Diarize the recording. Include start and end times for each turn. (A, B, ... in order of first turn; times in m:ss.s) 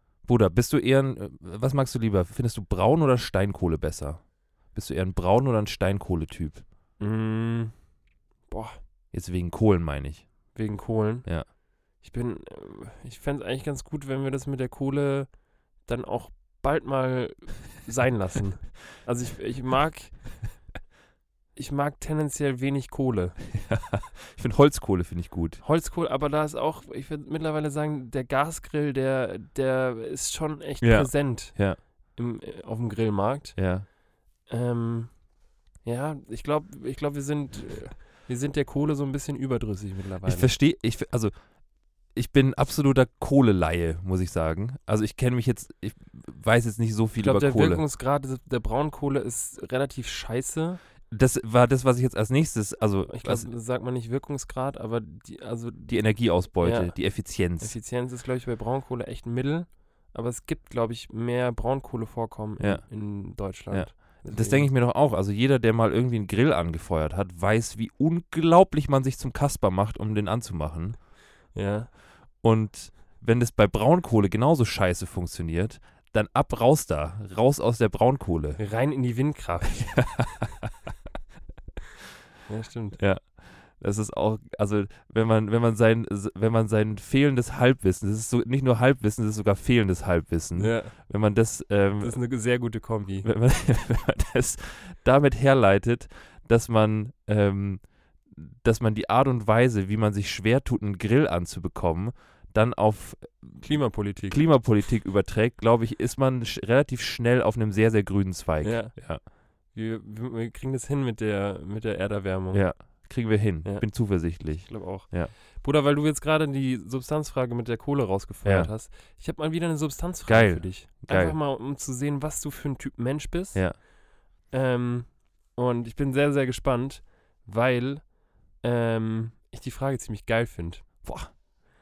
0:00.2-0:06.6 A
0:07.0-0:07.9 B
0:08.5-0:08.8 B
0:09.1-0:10.5 A
0:10.5-0:20.4 B
0:21.5-0:23.4 B
0:23.5-0:25.6 A
0:25.6-0:33.9 B
0:30.8-0:31.8 A
0:33.6-0:33.9 A
0:34.4-0:40.5 B
0:40.2-0:41.3 A
0:42.0-0:47.8 A
0:47.2-0:50.8 B
0:51.1-0:53.5 A
0:53.1-1:04.7 B
0:55.9-0:57.8 A
1:02.6-1:11.0 A
1:11.5-1:11.9 B
1:12.4-1:18.6 A
1:18.6-1:20.3 B
1:19.8-1:20.7 A
1:22.5-1:23.0 B
1:23.0-1:32.4 A
1:30.5-1:31.3 B
1:32.0-1:33.3 B
1:33.2-1:49.2 A
1:43.6-1:44.4 B
1:48.6-1:53.0 B
1:52.5-1:55.3 A
1:53.6-2:03.9 B
1:58.4-1:58.7 A
2:00.2-2:01.4 A
2:03.5-2:03.8 A
2:04.5-2:11.3 B
2:11.0-2:11.3 A